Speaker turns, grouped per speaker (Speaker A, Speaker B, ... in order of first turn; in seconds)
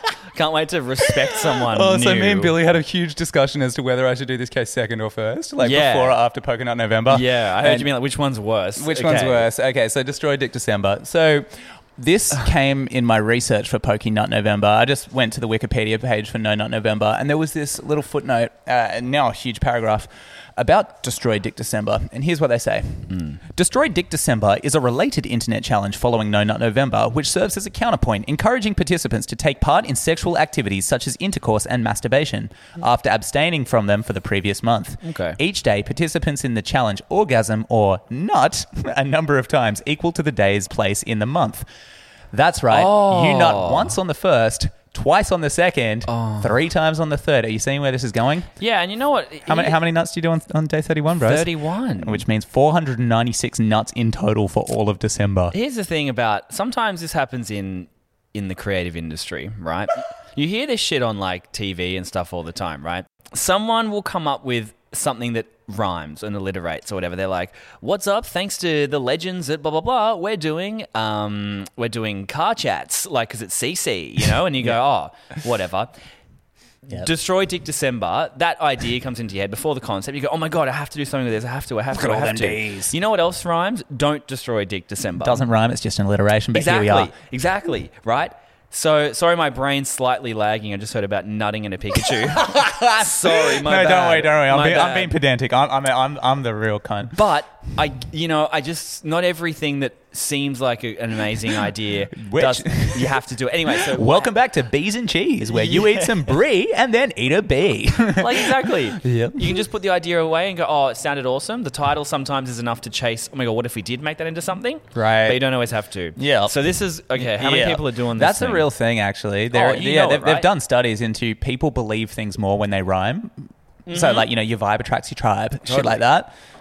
Speaker A: 0.3-2.6, 5.6-6.2, 7.1-9.5, 23.1-23.4, 35.0-35.4, 42.7-43.9, 46.1-46.5, 48.6-49.8, 51.2-52.2, 55.5-75.9, 76.9-85.4, 86.5-95.1, 97.1-104.3, 105.5-106.3, 108.2-118.7, 119.5-120.5, 123.9-124.2, 125.7-126.0
Speaker B: 1.5-7.9, 8.8-41.6, 42.3-48.5, 49.5-55.5, 81.9-82.9, 85.2-87.1, 92.2-97.2, 102.1-109.6, 114.9-115.4, 116.2-116.6, 117.1-126.3